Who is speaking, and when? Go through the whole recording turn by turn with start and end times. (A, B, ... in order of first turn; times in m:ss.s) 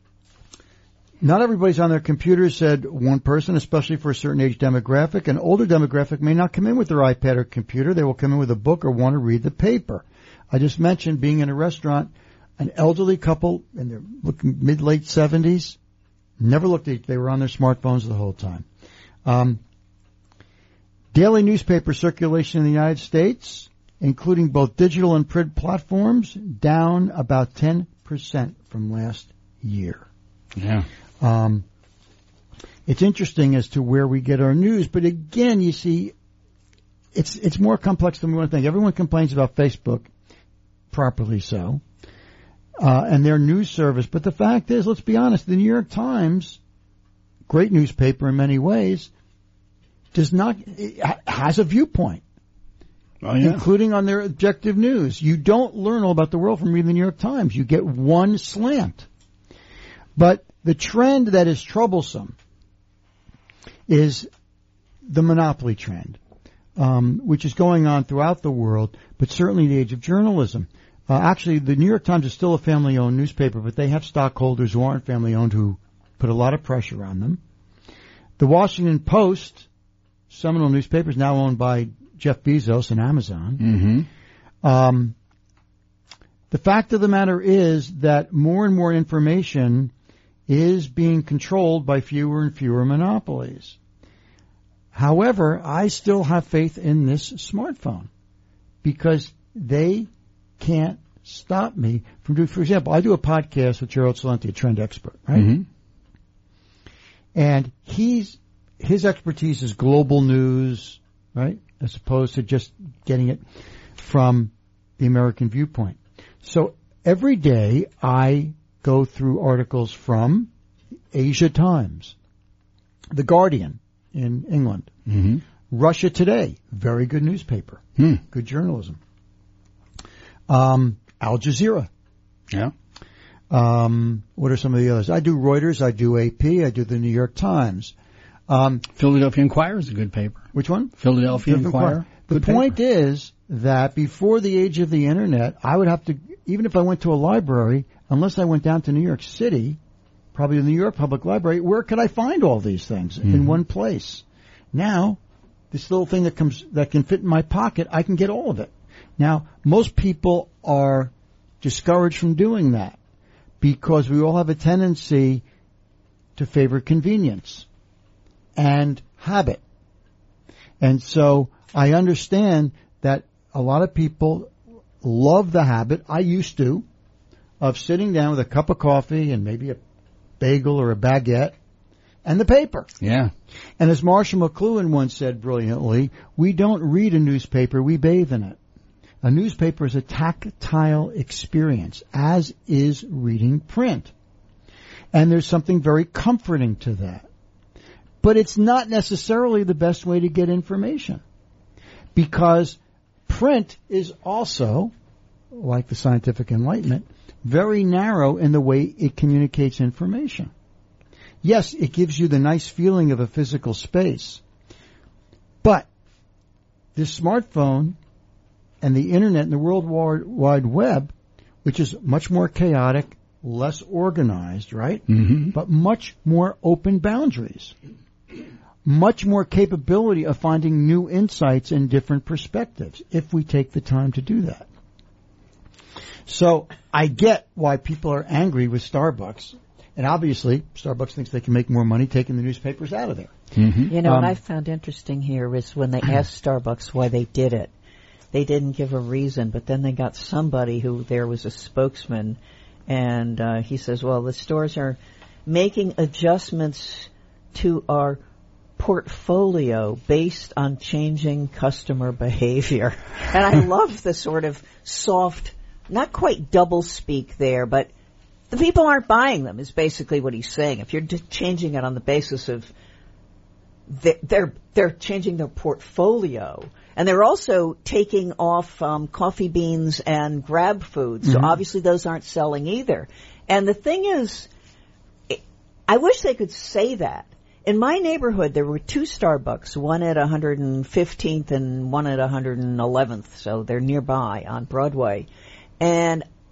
0:01.2-0:15.8 A
0:16.4-0:18.7 A
0:19.2-0:19.6 A
0:21.1-0:30.1 A
0:30.6-0:30.9 B
0:31.2-0:31.6 A
0:32.9-0:36.1 A
0:37.1-0:40.1 A
0:40.9-0:41.8 A
0:42.8-0:46.6 A
0:47.5-0:49.1 A
0:50.1-0:52.2 A
0:53.2-0:53.6 B
0:53.4-0:59.1 A
1:00.2-1:02.4 A
1:03.9-1:04.3 A
1:05.0-1:06.2 A
1:06.8-1:17.4 A
1:18.4-1:19.7 A
1:20.3-1:23.6 A
1:23.6-1:24.1 B
1:24.6-1:25.2 A
1:26.5-1:29.9 A
1:30.5-1:33.8 A
1:34.9-1:38.1 A
1:38.8-1:45.6 A
1:45.4-1:45.7 B
1:47.4-1:53.4 A
1:54.0-2:00.5 A
2:01.1-2:02.2 A
2:03.1-2:04.9 A
2:05.1-2:05.4 B
2:05.7-2:09.0 A
2:10.5-2:11.9 A
2:13.5-2:17.9 A
2:18.5-2:18.9 A
2:19.0-2:20.4 B
2:20.5-2:29.8 A
2:21.0-2:22.7 B
2:30.4-2:35.2 A
2:33.3-2:33.5 B
2:35.7-2:43.0 A
2:43.6-2:45.4 A
2:46.4-2:47.7 A
2:48.6-2:49.6 A
2:50.8-2:56.8 A
2:57.6-2:59.8 A
3:00.4-3:01.6 A
3:02.2-3:02.9 A
3:03.0-3:03.3 B
3:03.8-3:08.6 A
3:09.2-3:14.1 A
3:15.1-3:17.3 A
3:18.2-3:21.2 A
3:22.2-3:24.9 A
3:25.5-3:30.5 A
3:31.4-3:34.4 A
3:35.6-3:35.9 A
3:37.0-3:38.0 A
3:38.8-3:47.8 A
3:45.1-3:45.5 B
3:48.8-3:54.7 A
3:56.3-4:03.3 A
4:03.6-4:03.9 B
4:03.9-4:07.7 C
4:03.9-4:04.4 A
4:08.3-4:18.2 C
4:18.8-4:27.9 C
4:28.5-4:32.7 C
4:33.9-4:44.5 C
4:41.2-4:41.5 A
4:45.3-4:55.3 C
4:55.8-4:56.3 C